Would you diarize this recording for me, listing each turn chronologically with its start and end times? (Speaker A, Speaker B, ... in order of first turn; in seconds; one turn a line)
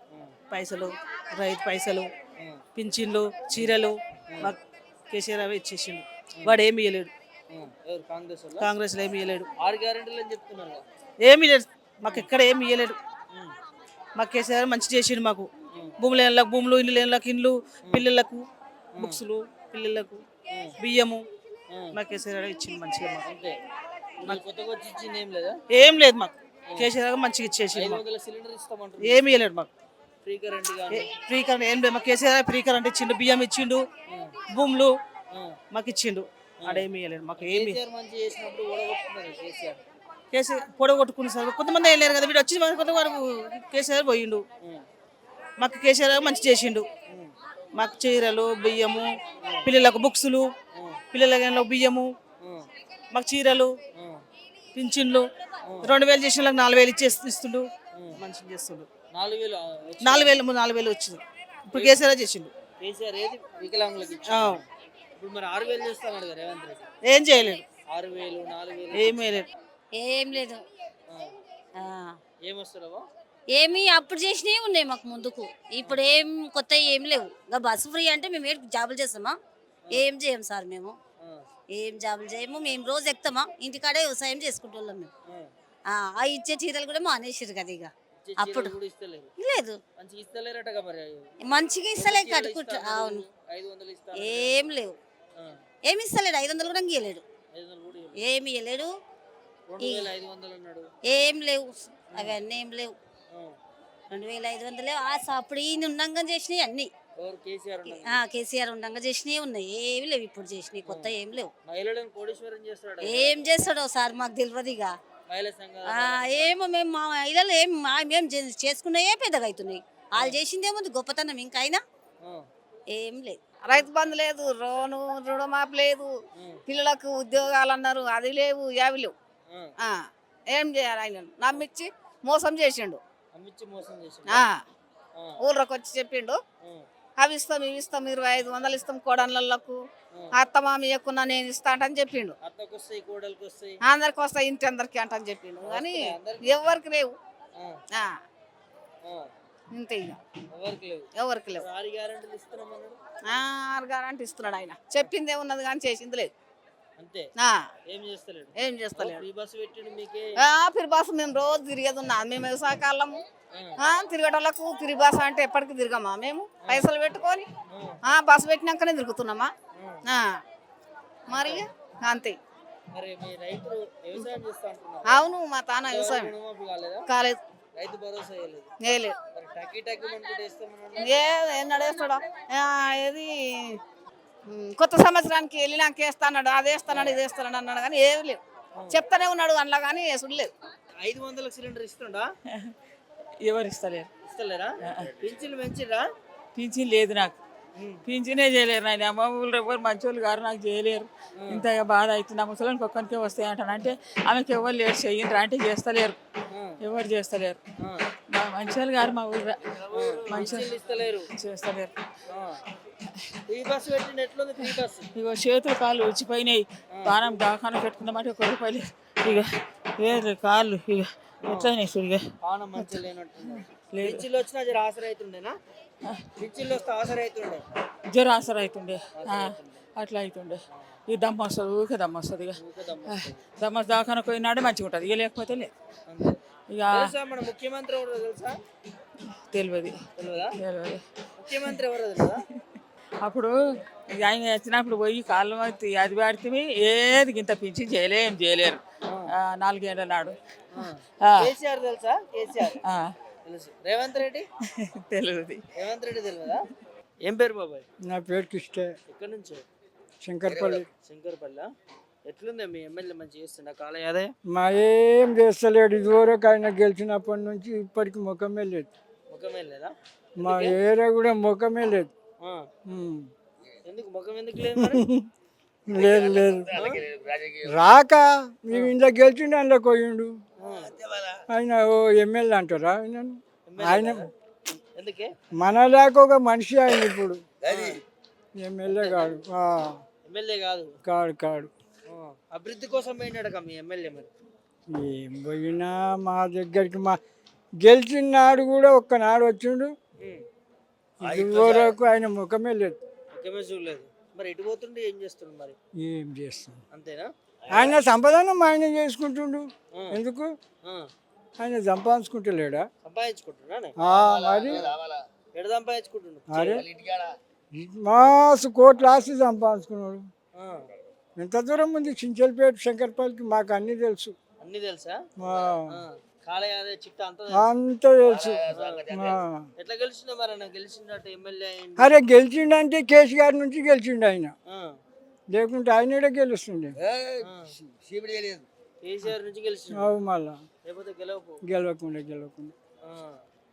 Speaker A: 0.1-0.4
Speaker B: 0.5-2.1
Speaker B: 2.7-4.6
Speaker B: 5.1-7.1
Speaker A: 7.5-8.7
Speaker B: 8.6-9.5
Speaker A: 9.6-10.8
Speaker B: 11.2-13.0
Speaker B: 14.2-18.4
Speaker A: 18.9-19.2
Speaker B: 19.0-20.2
Speaker A: 20.5-20.8
Speaker B: 20.8-21.2
Speaker A: 21.7-22.0
Speaker B: 21.9-23.2
Speaker A: 23.2-23.5
Speaker A: 24.2-25.6
Speaker B: 25.7-28.0
Speaker A: 27.7-29.2
Speaker B: 29.0-29.7
Speaker A: 30.2-31.1
Speaker B: 30.9-33.9
Speaker A: 34.1-34.4
Speaker B: 34.5-34.9
Speaker A: 35.3-35.6
Speaker B: 35.7-37.7
Speaker A: 36.6-39.8
Speaker B: 40.3-44.4
Speaker B: 45.6-46.9
Speaker B: 47.7-49.1
Speaker A: 49.4-49.7
Speaker B: 49.6-50.5
Speaker A: 50.7-51.0
Speaker B: 51.1-52.1
Speaker A: 52.4-52.6
Speaker B: 53.1-53.8
Speaker A: 53.9-54.2
Speaker B: 54.7-55.3
Speaker A: 55.6-56.0
Speaker B: 55.8-58.9
Speaker A: 57.9-58.2
Speaker A: 59.1-60.4
Speaker B: 60.0-61.2
Speaker A: 61.7-62.0
Speaker B: 61.7-62.5
Speaker A: 62.8-64.6
Speaker B: 64.3-64.6
Speaker A: 65.2-66.8
Speaker B: 67.0-67.6
Speaker A: 67.9-69.3
Speaker B: 68.9-69.5
Speaker C: 69.9-70.6
Speaker C: 71.8-72.2
Speaker A: 72.4-73.0
Speaker C: 73.5-79.4
Speaker C: 79.9-81.0
Speaker C: 81.7-85.1
Speaker C: 85.9-88.7
Speaker A: 88.2-89.3
Speaker C: 89.4-89.8
Speaker A: 90.0-91.3
Speaker C: 91.4-93.2
Speaker A: 92.0-94.6
Speaker C: 94.2-95.0
Speaker C: 95.8-97.2
Speaker A: 97.5-98.2
Speaker C: 98.2-98.9
Speaker A: 99.7-100.9
Speaker C: 99.8-100.1
Speaker C: 101.0-102.9
Speaker A: 103.3-103.5
Speaker C: 104.1-106.9
Speaker A: 107.2-108.2
Speaker C: 107.8-111.5
Speaker A: 110.8-113.4
Speaker C: 113.0-114.9
Speaker A: 115.3-116.6
Speaker C: 115.8-121.8
Speaker C: 122.9-123.4
Speaker D: 123.6-126.1
Speaker A: 126.3-126.6
Speaker D: 126.7-129.1
Speaker A: 129.5-129.7
Speaker D: 129.8-133.0
Speaker A: 133.3-134.5
Speaker D: 134.3-134.5
Speaker D: 135.4-136.4
Speaker D: 137.2-139.8
Speaker D: 140.3-142.3
Speaker A: 142.4-143.8
Speaker D: 143.8-147.1
Speaker A: 145.6-146.6
Speaker D: 149.7-150.2
Speaker A: 150.5-153.0
Speaker D: 151.2-151.6
Speaker D: 153.3-156.3
Speaker A: 157.0-157.3
Speaker A: 157.9-160.3
Speaker D: 158.6-159.2
Speaker D: 160.4-163.2
Speaker A: 163.5-163.8
Speaker D: 163.8-167.5
Speaker A: 166.6-166.9
Speaker A: 167.7-168.0
Speaker D: 168.1-169.5
Speaker A: 169.7-170.0
Speaker D: 170.1-170.3
Speaker D: 171.3-172.4
Speaker A: 171.3-171.7
Speaker A: 172.9-175.3
Speaker D: 175.1-176.3
Speaker A: 175.8-177.1
Speaker D: 177.1-177.4
Speaker A: 177.7-178.7
Speaker D: 178.8-179.2
Speaker A: 179.3-181.1
Speaker D: 181.0-183.8
Speaker D: 184.5-190.5
Speaker A: 186.9-187.2
Speaker A: 188.7-189.0
Speaker A: 191.0-192.3
Speaker E: 193.4-194.1
Speaker A: 194.2-196.0
Speaker E: 196.5-197.3
Speaker A: 197.8-198.0
Speaker E: 198.1-206.2
Speaker A: 201.3-201.7
Speaker A: 206.5-206.8
Speaker E: 206.8-207.6
Speaker A: 207.8-208.0
Speaker E: 208.3-211.9
Speaker A: 209.9-211.2
Speaker A: 212.3-212.6
Speaker A: 213.5-215.1
Speaker E: 215.1-222.2
Speaker A: 216.9-217.2
Speaker A: 221.4-221.7
Speaker A: 222.4-225.5
Speaker E: 223.9-224.2
Speaker A: 226.3-227.6
Speaker E: 228.1-235.7
Speaker A: 229.1-229.9
Speaker A: 232.5-233.4
Speaker A: 236.1-238.6
Speaker E: 236.7-237.1
Speaker E: 239.5-240.0
Speaker A: 240.2-240.6
Speaker E: 240.6-241.0
Speaker A: 241.4-242.4
Speaker E: 243.2-243.6
Speaker E: 244.1-248.8
Speaker A: 249.0-249.3
Speaker E: 249.3-251.5
Speaker A: 250.7-252.8
Speaker E: 252.7-253.1
Speaker A: 253.4-254.5
Speaker E: 254.8-255.6
Speaker A: 255.7-256.6
Speaker A: 257.2-257.9
Speaker F: 258.1-258.9
Speaker A: 259.1-259.6
Speaker F: 260.2-260.9
Speaker A: 261.0-261.7
Speaker A: 262.2-264.3
Speaker F: 264.5-268.9
Speaker A: 269.3-270.8
Speaker F: 270.4-272.1
Speaker A: 272.4-272.7
Speaker F: 272.9-273.3
Speaker A: 273.9-275.0
Speaker F: 274.9-275.2
Speaker F: 275.9-276.9
Speaker A: 276.7-277.0
Speaker F: 277.6-280.3
Speaker A: 280.6-280.9
Speaker F: 281.5-284.2
Speaker A: 283.7-284.3
Speaker A: 284.9-285.3
Speaker F: 285.6-287.4
Speaker A: 287.6-288.0
Speaker F: 288.6-289.9
Speaker A: 288.8-289.4
Speaker A: 290.2-290.9
Speaker F: 291.1-291.7
Speaker A: 292.1-294.3
Speaker F: 294.9-297.2
Speaker F: 297.8-299.9
Speaker F: 301.2-303.0
Speaker A: 301.5-301.9
Speaker A: 303.3-305.8
Speaker F: 306.0-306.8
Speaker A: 306.9-307.3
Speaker F: 307.7-310.5
Speaker A: 309.9-310.2
Speaker F: 311.6-312.9
Speaker A: 313.0-313.9
Speaker F: 314.0-314.8
Speaker A: 314.7-314.9
Speaker A: 315.5-316.8
Speaker F: 316.5-316.8
Speaker F: 317.7-320.3
Speaker A: 320.6-320.8
Speaker F: 321.4-324.3
Speaker A: 324.6-325.2
Speaker F: 325.4-325.9
Speaker A: 325.9-327.7
Speaker F: 327.5-329.6
Speaker A: 328.7-329.1
Speaker A: 329.8-332.1
Speaker F: 332.0-334.5
Speaker A: 334.7-334.9
Speaker F: 335.5-336.9
Speaker A: 337.4-337.7
Speaker A: 339.0-340.1
Speaker F: 339.9-340.6
Speaker A: 340.8-341.6
Speaker F: 341.7-342.7
Speaker A: 343.0-343.4